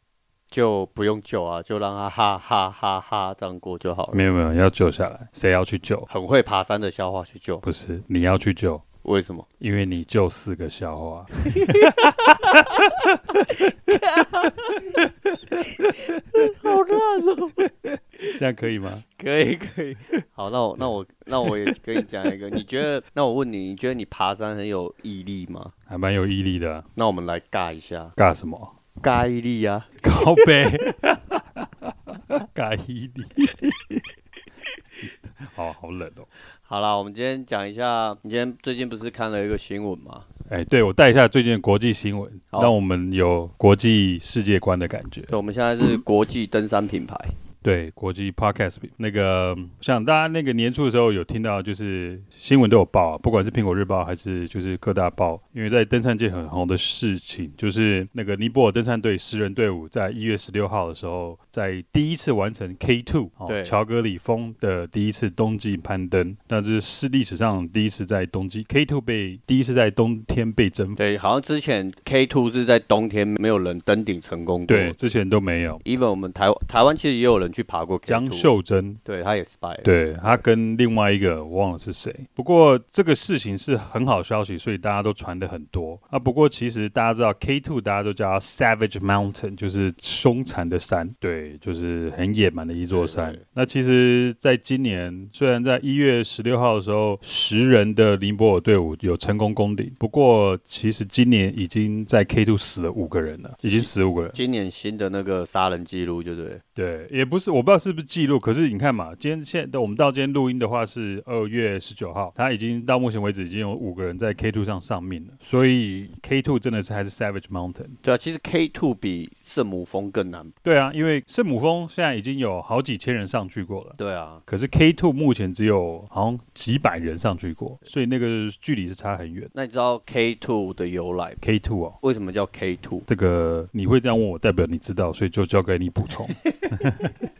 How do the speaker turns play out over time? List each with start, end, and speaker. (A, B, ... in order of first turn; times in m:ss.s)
0:00.5-0:04.2 A
0:04.1-0:06.1 B
0:06.1-0:07.6 A
0:07.6-0:08.8 B
0:09.0-0:09.5 A
0:09.6-0:13.7 B
0:11.6-0:17.7 A
0:15.0-0:16.7 B
0:18.2-0:19.0 B
0:19.1-0:25.7 A
0:20.8-0:21.8 B
0:25.9-0:26.9 B
0:27.0-0:28.2 A
0:28.2-0:28.7 B
0:29.0-0:29.9 A
0:30.0-0:34.0 B
0:35.4-0:36.3 B
0:36.7-0:40.3 A
0:40.5-0:45.3 B
0:45.3-0:47.3 A
0:47.6-1:11.0 B
1:03.5-1:03.8 A
1:11.0-1:15.0 A
1:14.7-1:15.8 B
1:15.8-1:18.5 A
1:18.1-1:19.0 B
1:19.0-1:20.4 A
1:19.8-1:44.4 B
1:32.9-1:33.4 A
1:43.7-1:46.6 A
1:46.8-1:58.0 B
1:58.0-2:00.5 A
2:00.6-2:09.5 B
2:04.0-2:04.4 A
2:09.5-2:11.4 A
2:11.4-2:12.0 B
2:12.0-2:13.1 A
2:13.1-2:17.1 B